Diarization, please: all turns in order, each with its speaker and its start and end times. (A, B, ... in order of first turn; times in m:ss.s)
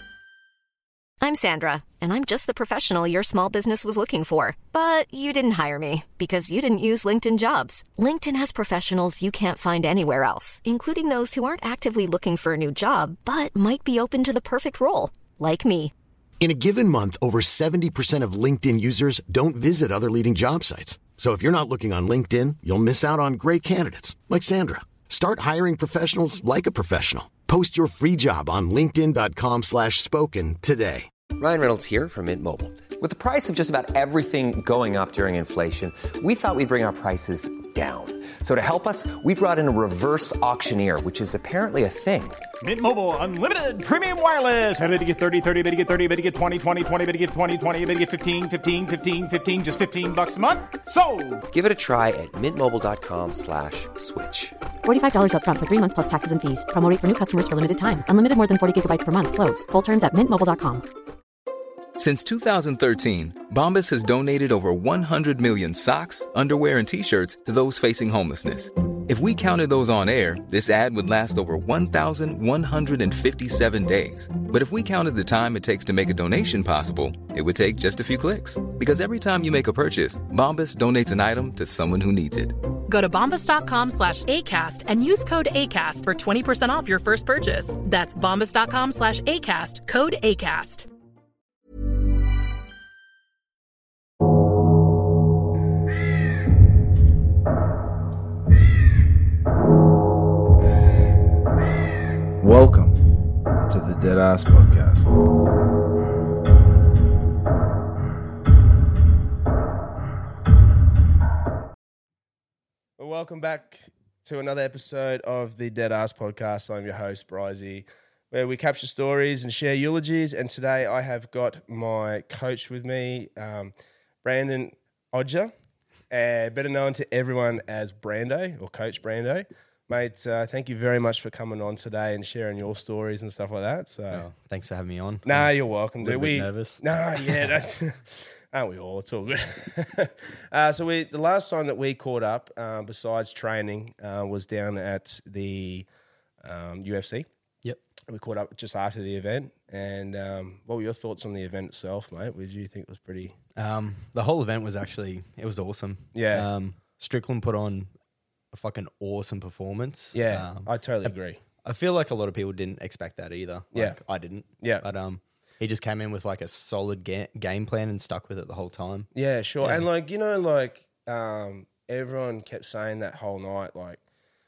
0:01.2-0:15.9 A
0:16.4-0:31.1 B
0:31.4-0:42.4 C
0:42.6-0:51.4 D
0:51.5-0:54.6 C
0:54.8-1:00.8 E
1:02.0-1:22.6 F
1:22.9-1:30.9 G
1:42.4-1:43.0 H
1:43.7-1:45.1 H
1:53.0-2:05.5 H
2:06.1-2:14.2 H
2:14.1-2:17.6 I
2:15.2-2:25.9 H
2:26.4-2:27.3 H
2:28.1-2:33.4 H
2:33.6-2:37.9 I
2:36.1-2:36.5 H
2:38.5-2:41.1 I
2:40.1-2:41.4 H
2:41.6-2:49.1 I
2:43.7-2:44.0 H
2:49.1-2:54.0 H